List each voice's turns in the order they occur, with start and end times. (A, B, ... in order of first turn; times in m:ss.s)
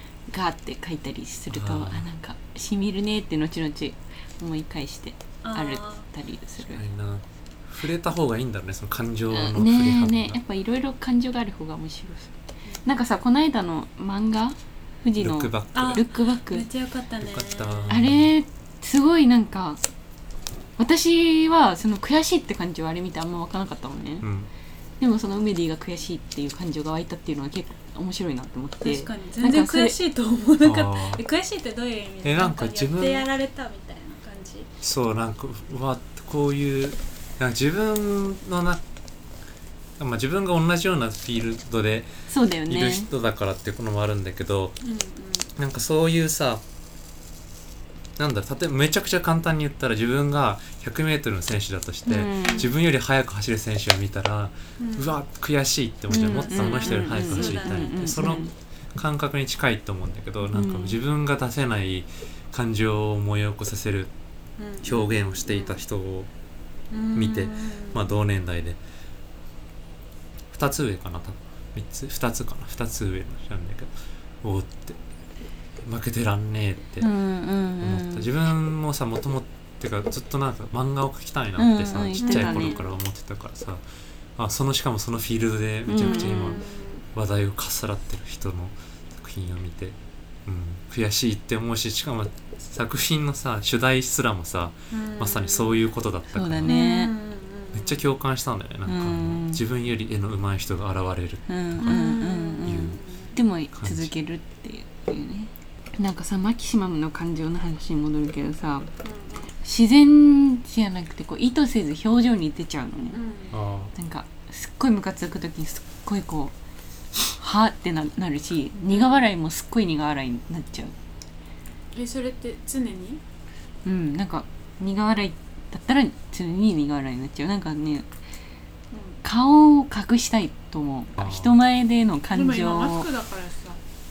0:00.3-0:06.8 A
0:01.5-0:02.0 B
0:05.4-0:06.1 C
0:06.6-0:10.4 B
0:09.3-0:16.7 A
0:15.2-0:16.0 B
0:15.7-0:18.0 C
0:17.2-0:18.3 B
0:17.9-0:19.8 A
0:20.8-0:24.3 A
0:24.2-0:24.5 B
0:25.0-0:29.9 A
0:28.8-0:34.7 C
0:30.6-0:31.2 B
0:32.2-0:33.3 B
0:34.8-0:38.8 B
0:40.0-0:42.1 B
0:42.3-0:43.1 A
0:42.7-0:44.8 B
0:44.8-0:45.5 C
0:45.6-0:46.6 B
0:48.2-1:04.1 B
0:52.0-0:52.7 A
0:52.4-0:52.7 C
0:54.8-0:55.2 C
0:56.1-0:58.5 A
0:56.3-0:58.2 C
1:00.5-1:01.0 A
1:04.6-1:05.8 C
1:04.8-1:06.3 B
1:06.9-1:08.0 C
1:07.1-1:08.8 B
1:10.5-1:13.9 B
1:14.4-1:15.0 B
1:15.8-1:17.1 B
1:17.0-1:18.3 A
1:17.8-1:23.8 B
1:21.6-1:22.8 A
1:22.2-1:22.9 C
1:24.4-1:26.6 B
1:25.9-1:26.6 A
1:25.9-1:27.0 C
1:27.1-1:36.8 B
1:34.9-1:35.9 C
1:36.3-1:37.1 A
1:36.6-1:38.0 C
1:37.7-1:42.0 B
1:38.8-1:39.6 A
1:41.5-1:48.9 A
1:41.8-1:43.3 C
1:42.6-1:43.0 B
1:43.7-1:44.1 B
1:49.0-1:49.5 C
1:49.6-1:53.2 A
1:53.1-1:53.5 C
1:53.5-1:53.9 B
1:53.9-1:56.5 A
1:57.3-2:00.9 A
1:58.9-1:59.2 C
2:01.9-2:03.2 C
2:03.8-2:08.1 A
2:08.9-2:09.2 C
2:09.2-2:13.1 A
2:11.2-2:11.6 B
2:12.3-2:13.8 C